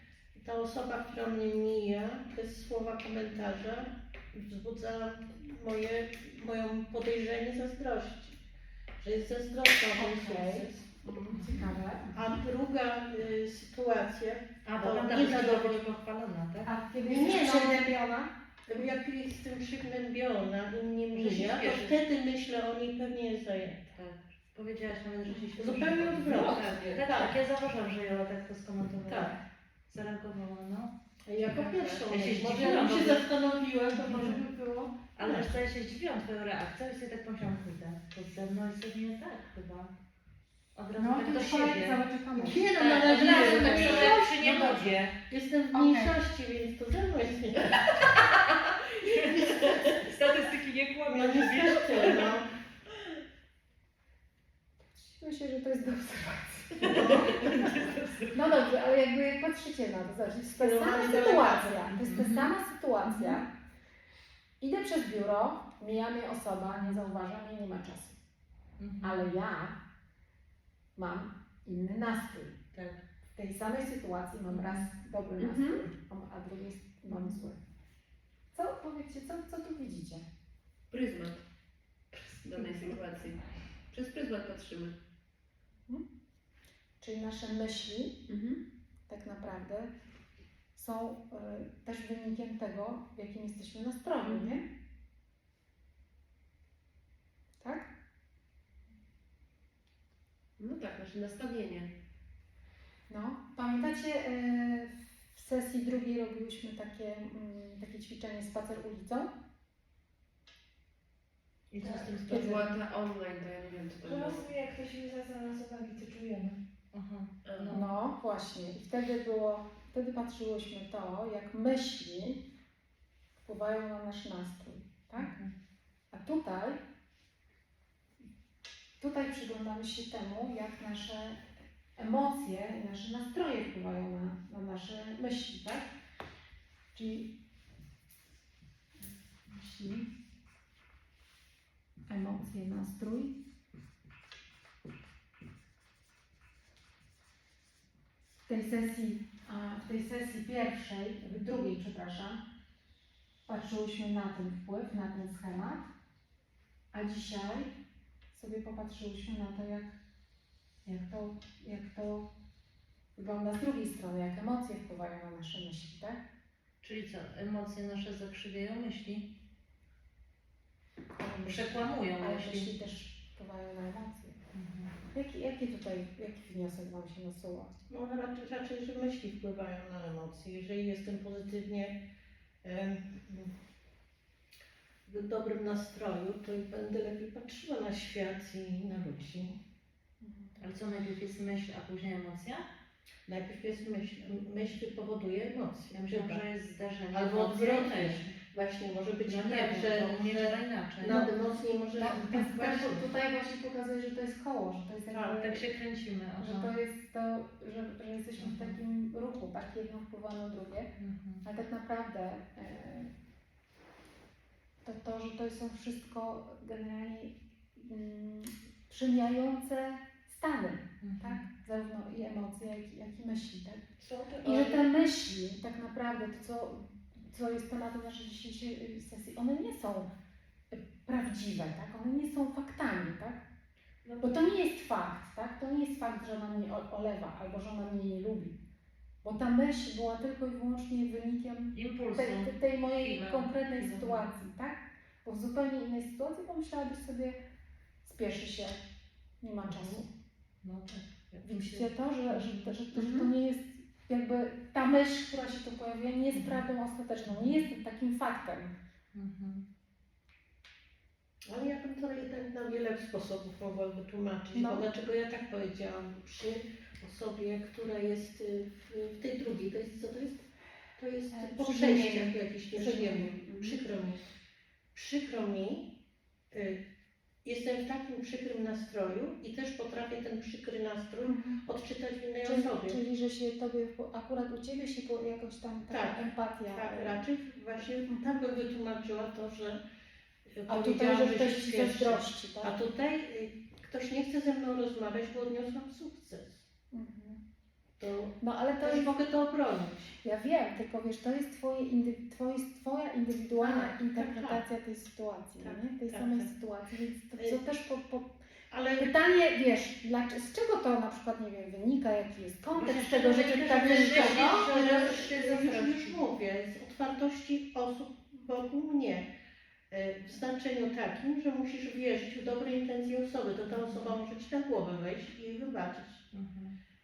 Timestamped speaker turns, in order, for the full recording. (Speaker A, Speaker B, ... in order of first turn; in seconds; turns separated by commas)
Speaker A: 0.3-8.3, Speaker A: 9.0-10.8, Speaker B: 9.9-12.2, Speaker C: 11.3-11.6, Speaker A: 12.1-15.9, Speaker C: 14.7-16.7, Speaker B: 16.6-18.3, Speaker A: 17.0-17.9, Speaker A: 18.7-23.9, Speaker C: 21.1-21.9, Speaker C: 23.9-29.4, Speaker B: 25.3-25.5, Speaker A: 25.6-27.4, Speaker D: 26.5-27.0, Speaker A: 29.0-29.3, Speaker C: 29.9-30.9, Speaker A: 31.3-34.4, Speaker D: 31.4-32.1, Speaker C: 32.1-33.2, Speaker C: 33.9-34.4, Speaker B: 34.4-34.9, Speaker C: 35.1-39.9, Speaker A: 35.2-35.5, Speaker C: 40.7-42.0, Speaker B: 41.0-44.9, Speaker A: 42.4-44.7, Speaker C: 42.7-45.1, Speaker D: 43.0-44.1, Speaker A: 45.2-48.1, Speaker B: 45.7-46.1, Speaker C: 48.9-52.3, Speaker A: 51.1-52.5, Speaker B: 54.9-57.6, Speaker C: 56.8-58.4, Speaker A: 56.8-57.4, Speaker B: 58.3-63.4, Speaker A: 60.5-61.9, Speaker C: 61.9-62.5, Speaker C: 63.0-63.4, Speaker B: 64.6-68.2, Speaker C: 66.8-67.0, Speaker C: 68.8-69.3, Speaker B: 69.0-69.8, Speaker B: 71.0-72.5, Speaker C: 72.7-73.0, Speaker B: 73.3-77.6, Speaker C: 74.5-74.9, Speaker D: 75.4-75.8, Speaker C: 77.1-77.4, Speaker B: 78.5-80.2, Speaker D: 80.9-81.4, Speaker D: 82.1-85.0, Speaker B: 82.6-83.0, Speaker B: 87.0-89.9, Speaker B: 90.7-94.7, Speaker C: 94.3-94.6, Speaker B: 97.6-97.9, Speaker D: 100.6-101.9, Speaker B: 103.1-109.3, Speaker C: 111.7-112.6, Speaker A: 111.8-112.3, Speaker E: 111.8-112.1, Speaker D: 112.2-114.5, Speaker E: 114.0-116.6, Speaker C: 116.9-117.9, Speaker D: 117.4-117.8, Speaker B: 117.7-122.4, Speaker B: 123.4-125.3, Speaker C: 125.2-125.5, Speaker B: 126.1-126.8, Speaker B: 129.0-131.4, Speaker B: 131.9-135.9, Speaker B: 136.9-137.3, Speaker B: 139.0-140.1, Speaker B: 142.1-143.3, Speaker B: 148.4-152.4, Speaker B: 153.4-155.9, Speaker B: 156.9-157.7, Speaker B: 158.3-160.0, Speaker B: 160.8-162.3, Speaker B: 163.2-166.2, Speaker C: 166.8-169.3, Speaker B: 171.2-174.3, Speaker C: 171.4-172.7, Speaker C: 174.5-174.9, Speaker B: 175.1-177.8, Speaker A: 177.9-181.9, Speaker A: 182.6-183.5, Speaker A: 185.1-189.5, Speaker B: 190.2-190.7, Speaker C: 190.6-192.6, Speaker A: 193.3-196.4, Speaker C: 195.9-198.3, Speaker A: 197.1-203.1, Speaker C: 199.2-201.2, Speaker B: 201.1-205.6, Speaker A: 205.1-205.4, Speaker C: 205.4-206.7, Speaker B: 206.4-210.9, Speaker C: 208.4-208.8, Speaker C: 211.0-211.4, Speaker B: 211.4-213.1, Speaker B: 214.8-223.8, Speaker C: 221.0-221.4, Speaker E: 224.0-224.9, Speaker B: 224.4-230.1, Speaker B: 230.7-233.4, Speaker E: 234.0-234.5, Speaker B: 234.2-238.6, Speaker B: 239.2-247.4, Speaker C: 241.7-244.4, Speaker B: 248.0-248.8, Speaker B: 249.4-250.1, Speaker C: 250.6-252.8, Speaker B: 251.4-258.7, Speaker D: 252.9-253.3, Speaker C: 256.3-256.6, Speaker C: 257.3-257.5, Speaker C: 259.1-259.6, Speaker A: 261.5-270.4, Speaker B: 264.5-264.9, Speaker A: 271.0-274.3, Speaker B: 271.3-273.8, Speaker A: 274.9-275.8, Speaker A: 276.5-276.8, Speaker A: 277.4-283.0, Speaker B: 281.2-281.6, Speaker B: 282.4-287.2, Speaker A: 285.9-289.8, Speaker A: 290.5-296.6, Speaker B: 290.7-292.7, Speaker B: 296.9-297.4, Speaker A: 298.0-300.1, Speaker B: 298.4-299.1, Speaker B: 300.2-308.3, Speaker A: 303.5-304.6, Speaker A: 305.6-306.5, Speaker A: 308.7-309.1, Speaker B: 309.0-314.7, Speaker A: 312.7-319.3, Speaker C: 313.5-316.2, Speaker A: 319.9-326.2, Speaker C: 323.7-324.2, Speaker C: 326.3-326.7